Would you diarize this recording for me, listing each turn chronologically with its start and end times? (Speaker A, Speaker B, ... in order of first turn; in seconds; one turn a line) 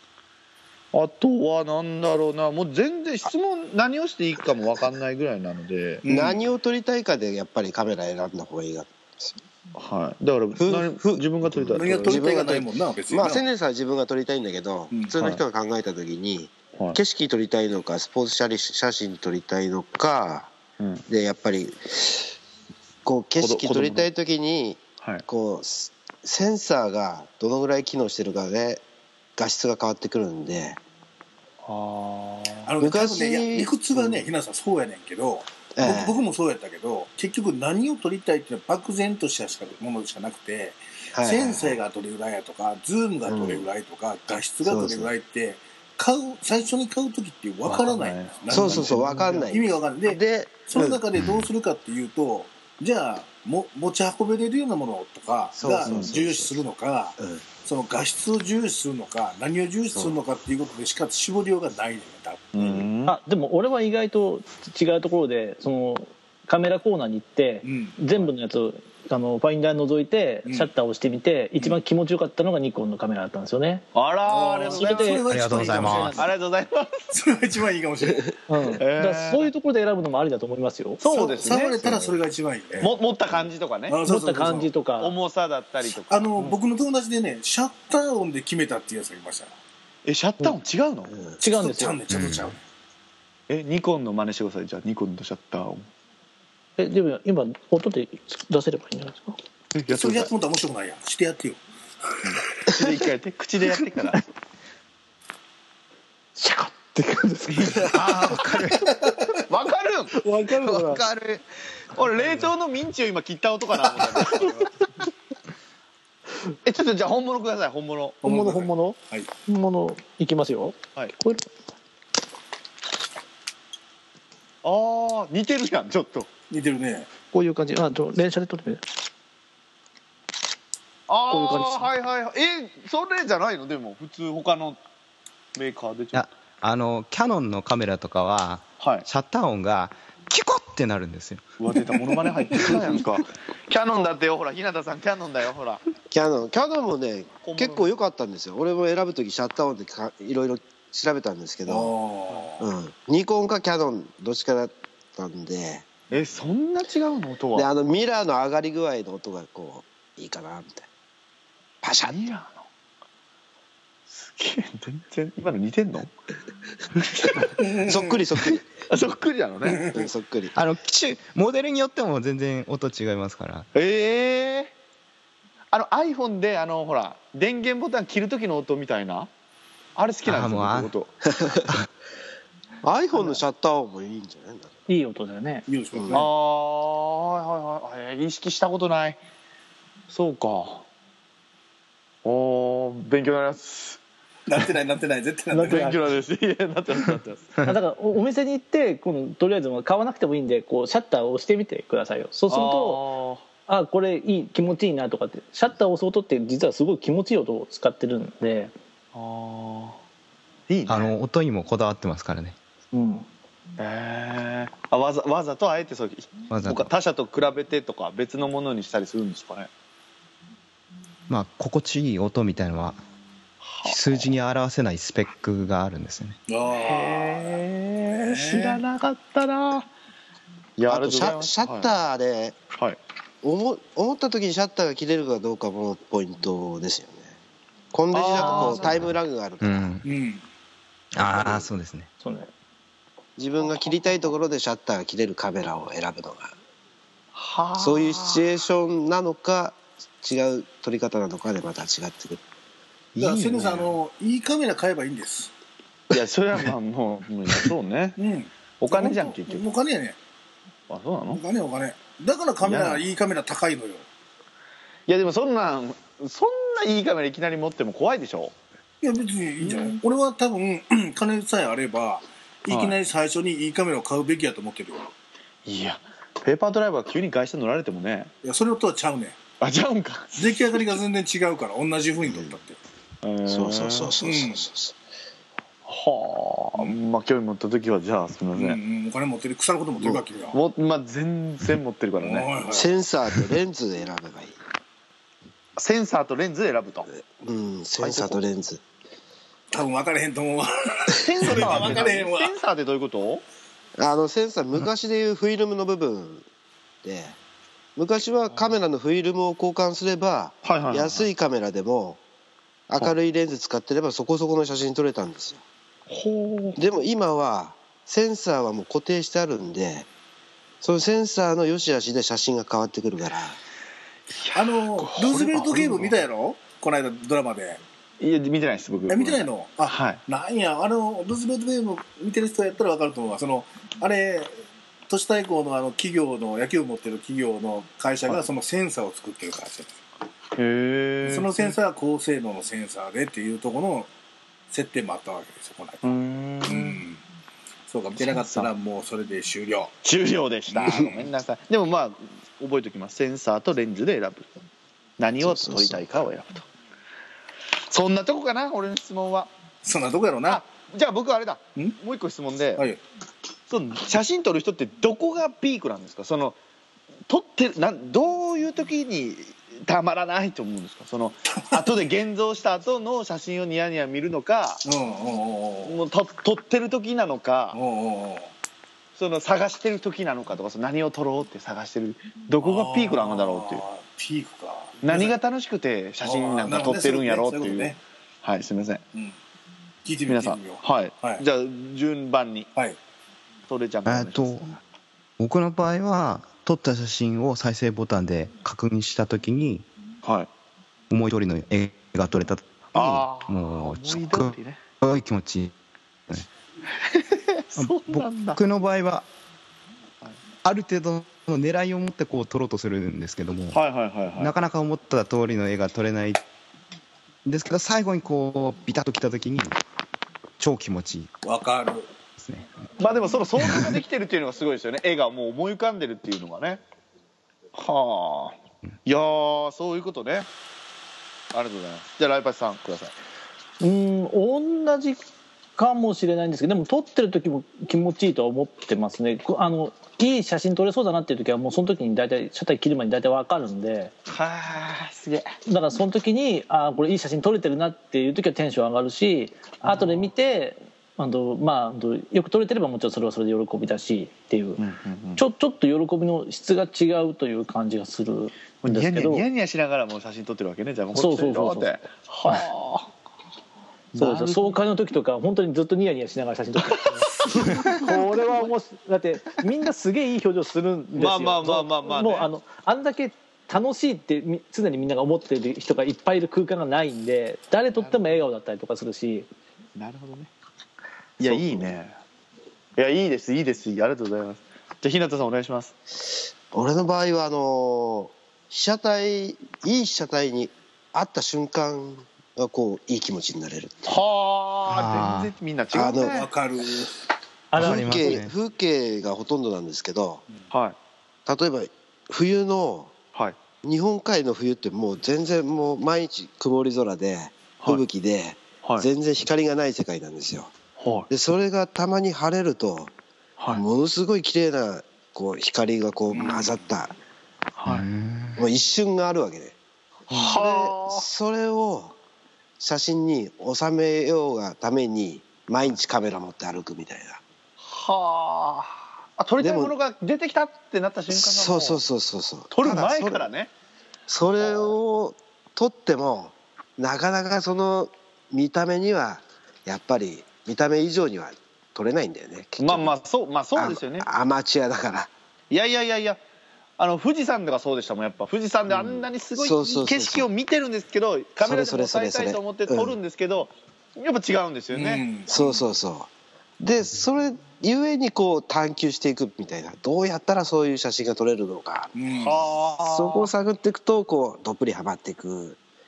Speaker A: 0.9-6.0
Speaker B: 6.0-6.4
Speaker C: 6.1-9.4
Speaker A: 9.7-12.2
Speaker C: 10.6-20.5
Speaker B: 11.7-13.4
Speaker A: 15.1-15.4
Speaker A: 20.8-21.0
Speaker C: 21.1-22.3
Speaker C: 23.0-28.8
Speaker A: 23.4-24.1
Speaker C: 29.4-30.8
Speaker A: 31.6-32.7
Speaker B: 32.6-62.8
Speaker C: 32.8-34.3
Speaker C: 35.7-36.2
Speaker C: 41.1-41.8
Speaker C: 43.2-43.7
Speaker C: 44.6-45.1
Speaker A: 47.6-49.3
Speaker C: 48.5-51.0
Speaker C: 55.5-56.6
Speaker A: 55.8-56.1
Speaker C: 57.2-57.4
Speaker A: 62.5-63.2
Speaker D: 63.0-73.8
Speaker B: 67.6-68.2
Speaker B: 70.5-70.7
Speaker A: 73.9-77.1
Speaker B: 74.2-76.3
Speaker D: 74.6-75.2
Speaker E: 75.3-76.2
Speaker B: 77.1-78.4
Speaker D: 78.5-81.0
Speaker A: 78.8-79.5
Speaker A: 81.0-82.2
Speaker B: 81.0-83.0
Speaker A: 82.8-84.0
Speaker B: 83.9-84.7
Speaker D: 84.0-85.1
Speaker A: 85.0-86.5
Speaker B: 85.9-89.5
Speaker A: 90.0-91.2
Speaker B: 91.4-92.6
Speaker D: 91.4-92.0
Speaker E: 92.1-92.5
Speaker A: 93.5-95.9
Speaker D: 96.8-99.4
Speaker A: 99.7-100.3
Speaker B: 99.9-101.6
Speaker A: 102.2-104.2
Speaker D: 106.3-108.0
Speaker E: 107.7-108.9
Speaker A: 107.9-108.6
Speaker A: 109.3-110.1
Speaker D: 110.1-111.0
Speaker E: 110.6-112.4
Speaker A: 111.9-114.7
Speaker A: 116.6-118.3
Speaker B: 118.2-119.3
Speaker D: 118.2-121.5
Speaker A: 124.6-126.3
Speaker B: 126.5-127.1
Speaker D: 127.3-128.8
Speaker A: 131.1-134.8
Speaker D: 131.3-131.9
Speaker A: 135.5-136.2
Speaker E: 136.1-141.6
Speaker A: 138.8-139.1
Speaker A: 141.6-145.8
Speaker B: 141.7-143.0
Speaker C: 146.1-151.9
Speaker A: 147.4-147.9
Speaker B: 151.7-152.7
Speaker C: 152.6-155.8
Speaker A: 156.1-157.7
Speaker C: 157.5-160.9
Speaker C: 161.8-162.2
Speaker A: 162.1-162.7
Speaker A: 164.1-166.1
Speaker A: 166.9-167.6
Speaker B: 167.6-168.2
Speaker C: 167.8-168.7
Speaker A: 168.4-169.9
Speaker B: 169.7-170.0
Speaker C: 169.9-170.5
Speaker E: 170.5-173.7
Speaker A: 173.7-174.7
Speaker A: 175.7-179.3
Speaker A: 179.9-181.1
Speaker E: 180.2-180.9
Speaker C: 181.3-181.8
Speaker C: 182.8-184.7
Speaker D: 184.9-185.7
Speaker B: 185.7-186.3
Speaker C: 185.9-186.3
Speaker A: 186.1-189.2
Speaker A: 190.1-190.8
Speaker A: 192.2-194.0
Speaker B: 194.5-195.9
Speaker D: 195.5-196.0
Speaker A: 195.7-197.6
Speaker D: 197.6-203.0
Speaker A: 202.5-203.4
Speaker D: 203.7-208.7
Speaker A: 209.1-210.0
Speaker A: 210.7-211.1
Speaker E: 210.9-212.6
Speaker D: 212.9-213.2
Speaker A: 213.8-219.7
Speaker E: 216.5-216.9
Speaker E: 221.3-223.0
Speaker A: 223.6-224.3
Speaker E: 223.8-226.4
Speaker B: 226.5-228.8
Speaker A: 226.7-229.9
Speaker A: 230.8-231.9
Speaker C: 230.9-232.6
Speaker C: 233.4-237.3
Speaker C: 237.9-239.9
Speaker A: 238.1-239.0
Speaker D: 238.3-238.9
Speaker E: 239.6-240.1
Speaker B: 240.0-240.4
Speaker E: 241.1-242.1
Speaker C: 241.2-241.6
Speaker D: 242.2-242.5
Speaker C: 243.4-246.5
Speaker A: 247.3-248.5
Speaker C: 247.8-252.4
Speaker A: 253.1-254.0
Speaker B: 253.2-255.5
Speaker A: 256.1-258.2
Speaker B: 258.2-260.1
Speaker A: 258.8-259.6
Speaker A: 260.9-261.4
Speaker B: 261.3-264.0
Speaker A: 262.6-263.1
Speaker A: 265.1-268.5
Speaker B: 269.0-275.1
Speaker A: 269.6-270.0
Speaker A: 272.7-273.0
Speaker A: 275.6-278.3
Speaker B: 278.4-279.4
Speaker A: 279.6-281.0
Speaker B: 280.4-282.8
Speaker A: 283.2-284.1
Speaker C: 283.4-284.9
Speaker B: 284.2-284.6
Speaker A: 285.9-288.8
Speaker B: 288.6-290.6
Speaker A: 290.5-292.5
Speaker B: 292.2-292.9
Speaker C: 292.7-294.6
Speaker A: 295.8-297.1
Speaker C: 297.2-298.8
Speaker A: 298.0-298.4
Speaker B: 299.7-302.5
Speaker A: 301.2-303.4
Speaker C: 304.0-306.4
Speaker C: 307.0-307.4
Speaker C: 307.9-312.2
Speaker A: 310.6-311.3
Speaker C: 312.9-315.6
Speaker A: 316.1-316.8
Speaker C: 316.8-320.1
Speaker C: 320.8-323.6
Speaker A: 324.3-326.2
Speaker B: 324.5-327.8
Speaker A: 328.2-330.2
Speaker B: 329.1-334.5
Speaker B: 335.1-339.9
Speaker A: 340.6-341.8
Speaker B: 341.2-344.1
Speaker B: 344.7-346.1
Speaker A: 346.0-347.0
Speaker B: 346.6-347.2
Speaker B: 347.9-349.9
Speaker A: 348.2-348.7
Speaker A: 350.0-354.5
Speaker B: 350.7-351.3
Speaker A: 355.2-356.6
Speaker C: 355.4-356.0
Speaker A: 357.9-359.5
Speaker B: 359.8-360.6
Speaker A: 360.4-362.8
Speaker A: 363.7-366.6
Speaker A: 367.3-374.8
Speaker B: 371.5-371.8
Speaker B: 374.8-376.0
Speaker A: 375.8-377.8
Speaker B: 377.7-378.5
Speaker A: 379.1-383.8
Speaker B: 382.6-385.4
Speaker A: 385.0-389.0
Speaker B: 386.2-388.0
Speaker B: 390.0-391.4
Speaker A: 390.3-392.7
Speaker A: 393.7-394.8
Speaker E: 394.1-394.7
Speaker E: 395.4-399.9
Speaker A: 400.2-400.5
Speaker E: 401.1-405.7
Speaker A: 402.9-404.8
Speaker A: 407.0-408.6
Speaker E: 407.8-409.2
Speaker E: 410.6-413.8
Speaker A: 413.7-414.5
Speaker E: 414.4-416.4
Speaker E: 417.4-419.8
Speaker E: 420.6-421.3
Speaker B: 421.4-422.1
Speaker E: 422.4-422.7
Speaker A: 423.0-426.8
Speaker E: 423.7-424.0
Speaker A: 427.7-430.5
Speaker A: 431.5-433.1
Speaker D: 433.8-435.2
Speaker D: 435.8-444.1
Speaker A: 444.3-445.5
Speaker D: 445.6-454.8
Speaker A: 449.9-450.3
Speaker A: 454.8-455.4
Speaker D: 455.4-459.4
Speaker A: 458.8-463.1
Speaker D: 461.1-461.9
Speaker A: 464.1-464.8
Speaker D: 464.1-479.5
Speaker A: 467.0-468.2
Speaker A: 471.2-472.5
Speaker A: 477.9-478.4
Speaker A: 479.9-480.5
Speaker A: 481.4-482.1
Speaker C: 481.4-481.9
Speaker A: 482.9-485.9
Speaker C: 486.7-494.2
Speaker A: 494.1-496.5
Speaker E: 494.9-495.5
Speaker C: 495.9-496.4
Speaker B: 496.2-497.1
Speaker D: 497.7-498.4
Speaker E: 497.7-498.5
Speaker C: 497.8-500.4
Speaker A: 500.7-500.9
Speaker C: 501.4-503.1
Speaker C: 503.8-510.7
Speaker A: 511.0-511.3
Speaker C: 511.3-513.1
Speaker C: 513.7-517.1
Speaker B: 516.3-516.7
Speaker A: 517.8-518.1
Speaker E: 517.9-518.6
Speaker C: 518.5-519.7
Speaker C: 520.3-522.1
Speaker A: 520.3-521.3
Speaker C: 522.8-527.4
Speaker A: 527.8-532.0
Speaker C: 529.6-529.9
Speaker C: 531.3-533.5
Speaker A: 532.7-533.7
Speaker C: 534.3-543.1
Speaker A: 534.6-534.9
Speaker A: 542.8-544.3
Speaker C: 543.7-545.3
Speaker A: 545.7-546.4
Speaker A: 547.0-555.2
Speaker C: 549.5-550.5
Speaker C: 551.6-553.2
Speaker B: 554.9-555.8
Speaker C: 555.5-562.1
Speaker B: 562.1-562.7
Speaker A: 562.3-563.5
Speaker C: 563.0-565.8